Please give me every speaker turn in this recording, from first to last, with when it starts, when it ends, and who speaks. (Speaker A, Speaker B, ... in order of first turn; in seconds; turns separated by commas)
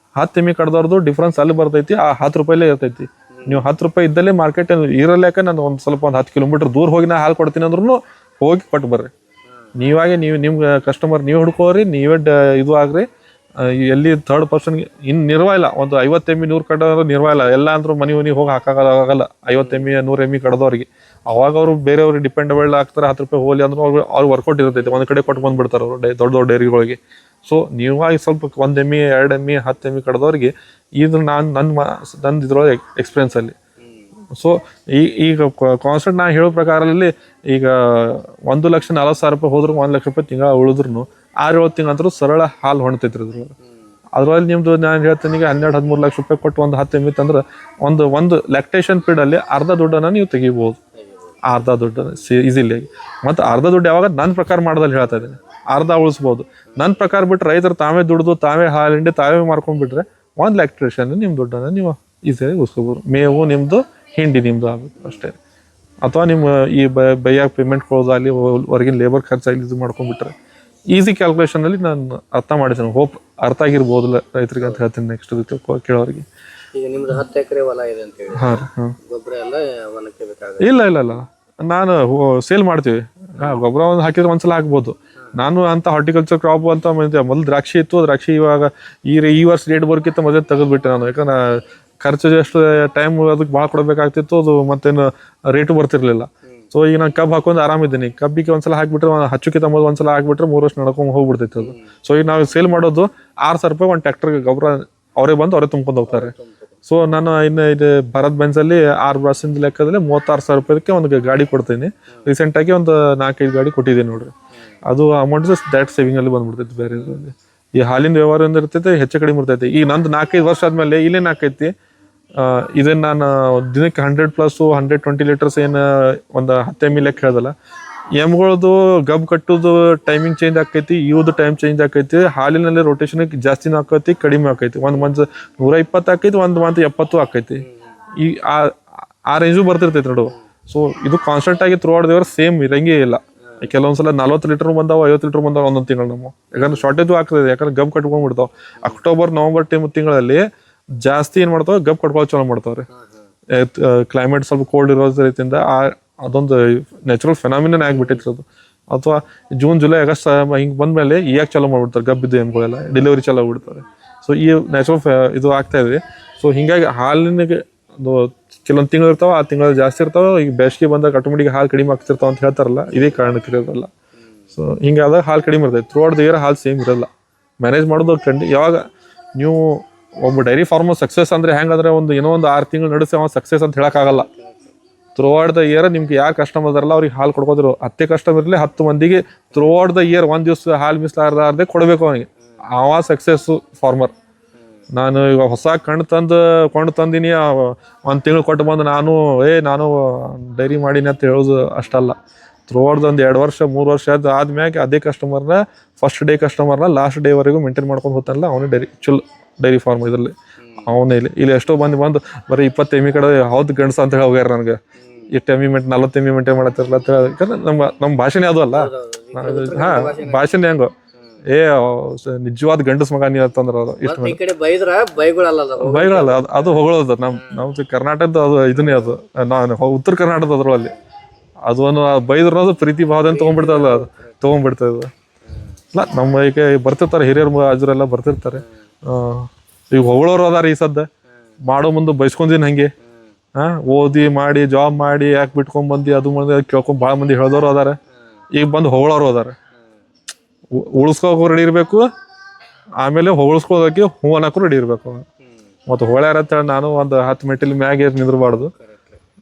Speaker A: 0.2-9.1, Speaker B: 3.4-3.7, Speaker A: 9.8-13.1, Speaker A: 13.6-33.6, Speaker B: 19.6-19.9, Speaker B: 24.8-25.0, Speaker A: 34.3-43.5, Speaker A: 44.1-50.8, Speaker B: 51.0-51.4, Speaker A: 51.4-65.4, Speaker B: 55.0-55.5, Speaker B: 56.7-57.0, Speaker A: 66.0-70.3, Speaker A: 70.9-76.2, Speaker B: 76.8-81.2, Speaker A: 78.3-79.0, Speaker A: 80.6-106.3, Speaker B: 106.1-106.7, Speaker A: 106.9-114.3, Speaker A: 114.9-121.7, Speaker A: 122.4-127.5, Speaker A: 128.2-137.7, Speaker B: 137.6-137.9, Speaker A: 138.2-150.4, Speaker B: 146.5-146.9, Speaker A: 151.0-152.9, Speaker B: 152.9-153.2, Speaker A: 153.5-173.9, Speaker B: 157.9-158.2, Speaker A: 174.5-177.1, Speaker A: 177.6-184.3, Speaker B: 183.9-184.7, Speaker A: 185.2-194.1, Speaker A: 194.9-202.2, Speaker A: 202.7-214.8, Speaker B: 210.6-210.9, Speaker B: 215.0-215.3, Speaker A: 215.3-220.9, Speaker B: 218.7-220.6, Speaker A: 221.4-224.4, Speaker B: 224.0-227.7, Speaker A: 225.8-230.9, Speaker B: 228.8-229.1, Speaker A: 231.7-235.1, Speaker B: 233.3-234.4, Speaker A: 235.9-241.1, Speaker A: 241.6-242.9, Speaker B: 243.0-243.3, Speaker A: 243.6-248.0, Speaker A: 248.5-249.6, Speaker B: 249.8-250.0, Speaker A: 250.7-252.1, Speaker A: 253.0-255.3, Speaker A: 255.9-258.7, Speaker B: 258.7-259.2